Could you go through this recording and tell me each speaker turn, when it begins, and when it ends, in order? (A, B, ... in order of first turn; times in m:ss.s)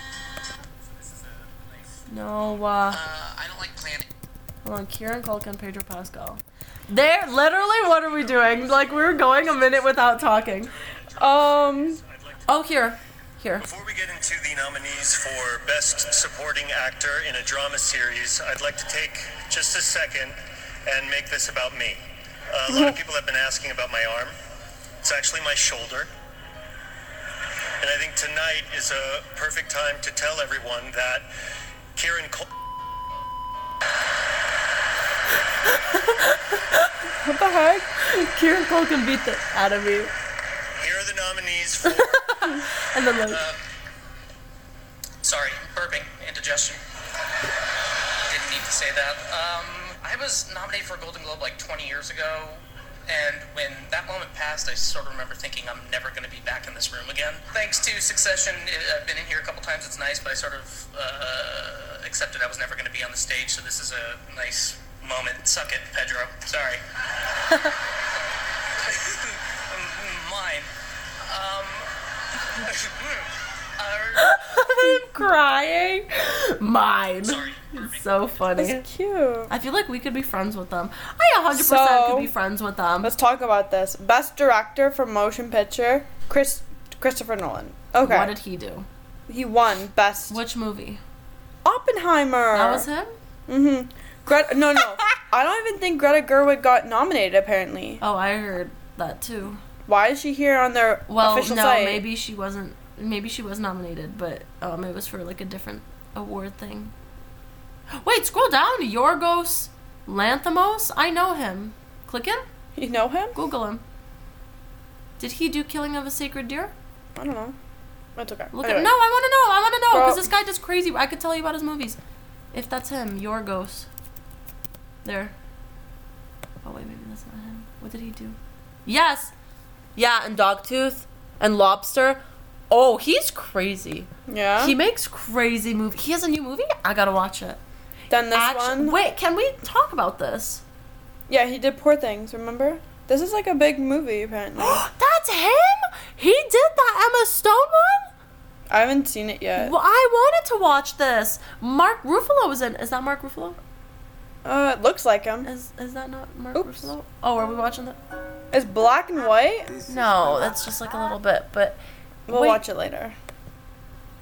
0:00.1-0:01.9 A
0:02.1-0:03.0 B
0:02.9-0:04.1 A
0:04.6-0:10.7 B
0:09.2-0:10.0 C
0:10.8-0:12.5 C
0:11.2-0:12.0 D
0:12.5-0:13.6 B
0:13.6-0:24.3 C
0:22.7-0:23.0 D
0:25.0-0:26.1 C
0:27.8-0:31.3 C
0:31.9-0:32.5 C
0:35.9-0:36.9 B
0:37.2-0:37.9 D
0:38.0-0:40.1 B
0:40.8-0:42.5 C
0:41.8-0:43.4 B
0:45.2-0:46.8 E
0:48.3-1:06.8 E
1:08.1-1:10.7 E
1:11.2-1:11.9 E
1:12.6-1:14.4 E
1:14.2-1:18.8 B
1:17.2-1:18.0 E
1:18.6-1:19.5 D
1:19.5-1:23.1 B
1:21.5-1:22.3 D
1:23.0-1:28.3 D
1:28.0-1:28.9 B
1:29.3-1:30.4 D
1:30.3-1:31.0 B
1:31.6-1:32.9 D
1:32.5-1:33.1 B
1:33.5-1:38.0 D
1:38.0-1:39.6 B
1:39.9-1:42.0 D
1:41.1-1:46.9 B
1:47.9-1:52.4 B
1:52.8-1:53.4 D
1:53.3-1:53.8 B
1:55.2-1:56.7 B
1:57.2-1:57.6 D
1:58.2-1:58.9 D
1:58.5-2:02.0 B
1:59.9-2:00.3 D
2:02.5-2:03.9 B
2:05.0-2:05.3 B
2:06.6-2:09.3 B
2:10.0-2:17.6 B
2:14.3-2:14.8 D
2:18.1-2:19.0 D
2:18.3-2:20.6 B
2:21.3-2:24.8 D
2:24.6-2:28.1 B
2:28.7-2:29.7 D
2:29.6-2:33.6 B
2:34.4-2:35.5 D
2:35.4-2:38.0 B
2:36.6-2:36.9 D
2:38.5-2:39.8 D
2:39.9-2:42.6 B
2:42.3-2:43.1 D